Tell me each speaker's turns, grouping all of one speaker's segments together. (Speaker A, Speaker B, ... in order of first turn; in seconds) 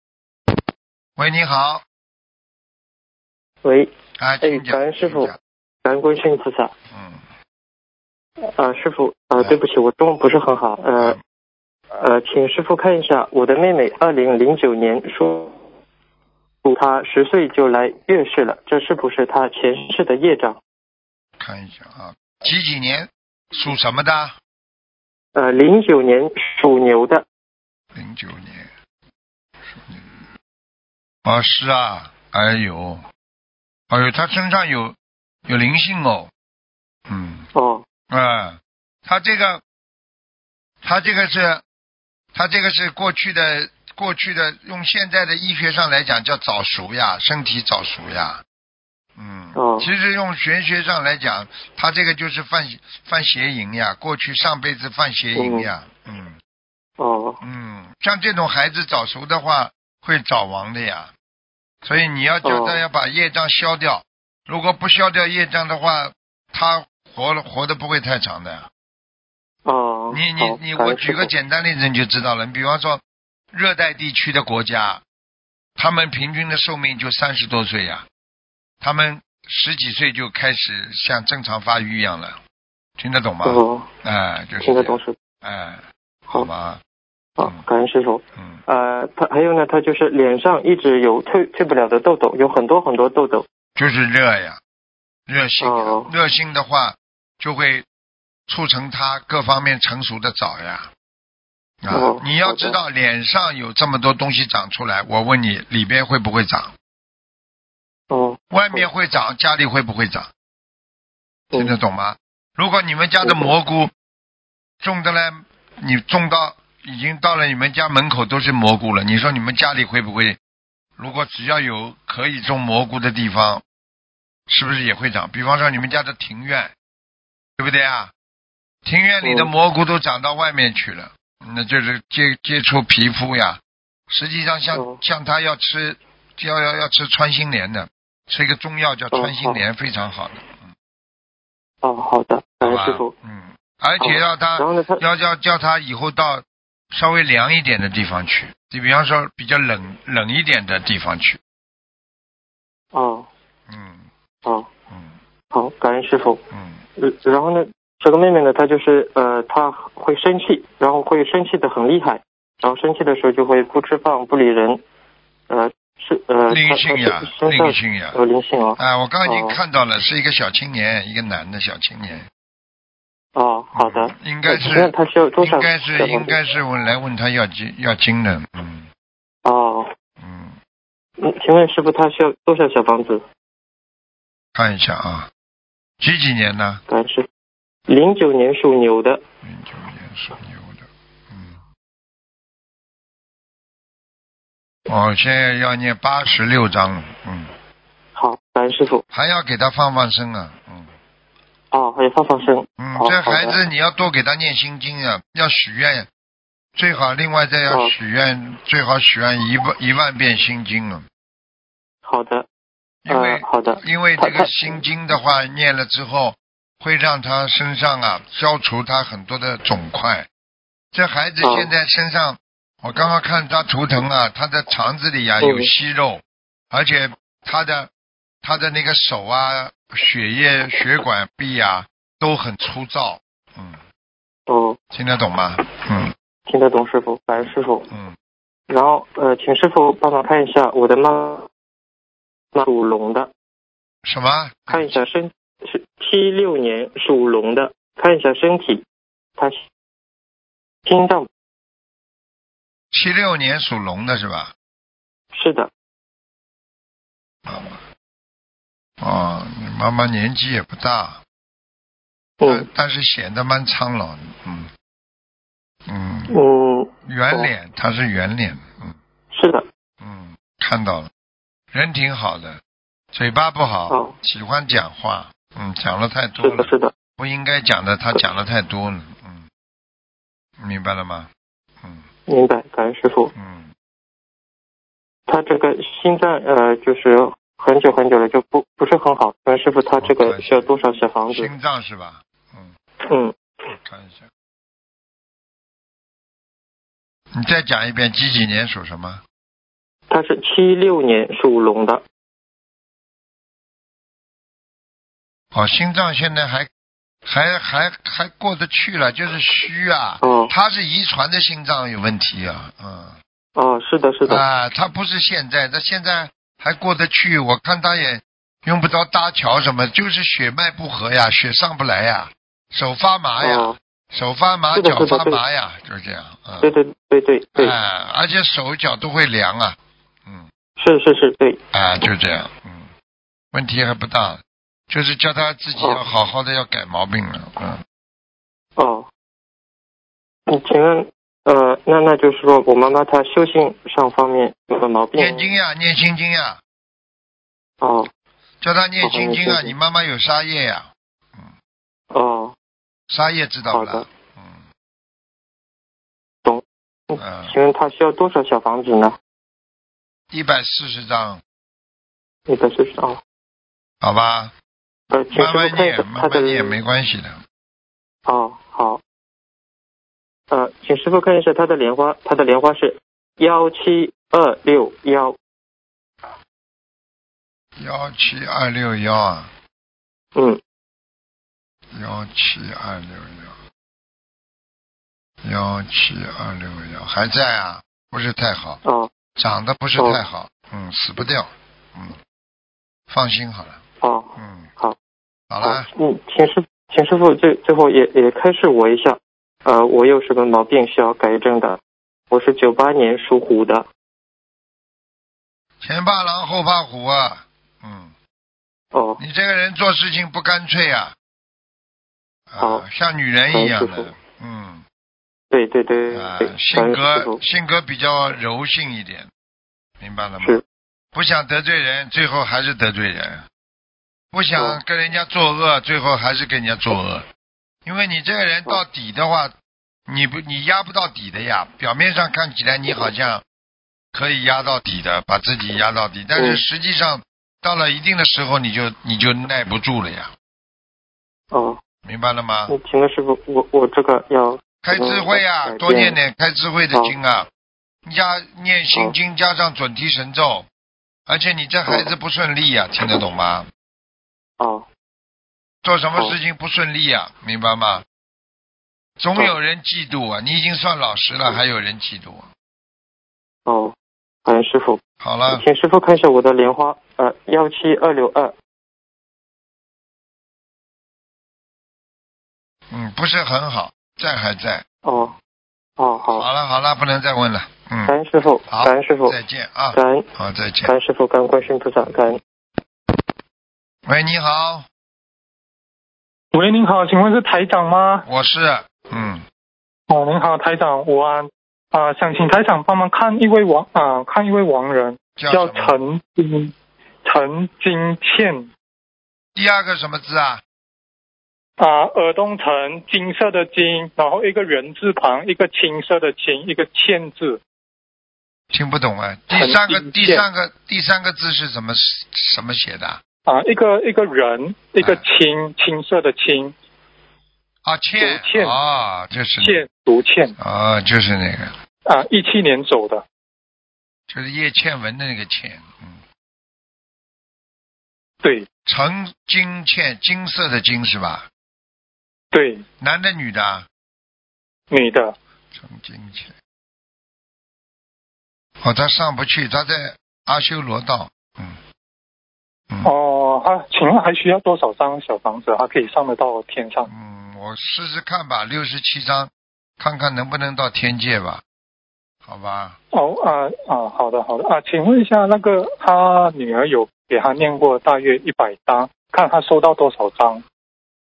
Speaker A: 1.2-1.8, 4.2-5.3, 6.9-7.2, 21.4-24.4, 27.9-28.7, 29.6-30.3, 31.2-33.0, 33.9-36.3, 37.1-37.5, 38.1-39.6, 40.8-41.6, 42.3-48.4, 49.2-56.4, 57.4-61.1, 61.8-68.7, 70.1-75.0, 75.8-78.0, 78.8-82.4, 83.0-86.8, 93.8-94.6, 95.3-97.8, 98.5-100.9, 101.8-106.7, 108.5-110.3, 111.5-113.9, 114.8-120.4, 121.0-123.6, 124.5-126.7, 127.6-128.1, 128.8-140.7, 142.6-151.4, 153.7-154.1, 156.5-156.8, 166.5-168.2, 168.8-172.2, 173.7-178.9, 180.2-180.6, 184.5-185.3, 186.0-186.8, 189.4-191.6, 194.9-197.5, 199.1-200.9, 202.8-206.1, 206.8-211.0, 213.0-220.3, 220.9-227.9, 228.4-233.8, 234.9-236.1, 237.3-238.2, 244.0-245.0, 252.9-254.5, 257.4-257.8, 259.0-261.2, 262.4-264.7, 265.9-266.3, 267.1-269.0, 270.0-271.1, 271.7-272.6, 273.1-279.4, 280.6-281.3, 283.3-283.7, 290.0-290.7, 291.3-292.7, 293.8-294.3, 297.3-299.2, 305.5-306.7, 307.2-313.1, 314.2-326.7, 327.6-330.5, 331.7-332.9, 333.5-337.8, 345.1-346.6, 348.6-351.5, 353.1-354.6, 357.1-357.5, 360.3-361.4, 364.0-364.5, 365.3-367.4, 377.8-379.5, 381.9-383.6, 385.4-388.8, 389.4-392.2, 393.1-393.8, 394.4-394.7, 395.5-395.9, 405.8-408.1, 409.2-411.1, 412.5-414.8, 416.1-419.3, 420.0-420.6, 421.1-423.4, 424.3-427.2, 427.8-429.5, 430.1-433.4, 434.1-440.3, 442.0-442.7, 444.8-447.5, 448.1-450.7, 451.3-453.7, 455.8-458.0, 459.2-462.5, 465.2-465.6, 472.9-474.8, 476.3-478.1, 478.7-480.9, 484.1-484.9, 488.2-489.4, 495.4-496.0, 499.6-500.6, 508.7-513.2, 517.8-519.8, 520.6-521.8, 524.3-526.2, 528.9-531.5, 533.0-533.9, 535.7-536.5, 538.8-541.8, 547.1-551.6, 552.4-553.0
Speaker B: 3.6-3.9, 4.4-5.3, 5.8-6.7, 8.4-11.2, 11.9-15.6, 16.6-20.6, 25.3-27.2, 37.5-37.8, 49.5-49.9, 55.4-55.7, 57.0-57.4, 62.4-62.8, 69.6-71.3, 83.4-83.9, 84.6-85.2, 87.4-93.4, 95.6-96.1, 101.9-102.8, 108.1-108.8, 113.2-113.5, 129.2-129.5, 134.7-135.0, 139.1-139.6, 141.8-143.1, 144.0-145.0, 152.9-153.3, 155.5-156.4, 157.0-164.8, 165.5-169.6, 173.3-176.3, 179.4-179.9, 181.2-183.2, 186.9-187.2, 187.9-189.2, 198.1-199.0, 201.7-203.6, 212.0-212.5, 213.1-214.8, 221.4-221.7, 225.4-225.7, 234.5-234.8, 236.5-237.9, 238.7-241.5, 242.5-243.3, 244.7-248.8, 249.4-249.6, 250.8-251.3, 255.3-255.7, 262.4-262.7, 266.3-267.5, 269.3-269.6, 273.9-274.1, 276.4-276.9, 282.3-283.3, 285.3-291.5, 293.0-293.7, 300.1-302.0, 310.2-310.5, 313.6-314.4, 323.4-323.8, 324.7-325.4, 326.6-327.7, 330.8-331.6, 338.8-339.1, 340.5-345.4, 347.8-348.1, 349.0-349.7, 352.1-352.5, 353.7-354.1, 356.4-359.1, 362.5-363.2, 365.1-366.8, 368.2-369.0, 370.5-375.4, 390.0-390.2, 394.0-394.9, 395.6-401.8, 402.3-403.9, 408.9-409.2, 413.5-414.1, 415.5-417.4, 436.4-436.6, 441.5-441.8, 442.7-446.2, 454.6-454.9, 463.6-468.5, 475.0-475.3, 476.0-476.5, 478.1-479.4, 479.9-480.2, 480.8-482.4
Speaker C: 486.5-488.2, 490.1-496.7, 497.2-498.7, 501.8-507.6, 509.5-510.4, 513.5-516.7, 518.2-518.8, 519.6-520.5, 522.0-523.2, 532.5-532.8, 534.9-535.3, 543.0-547.1, 553.1-560.6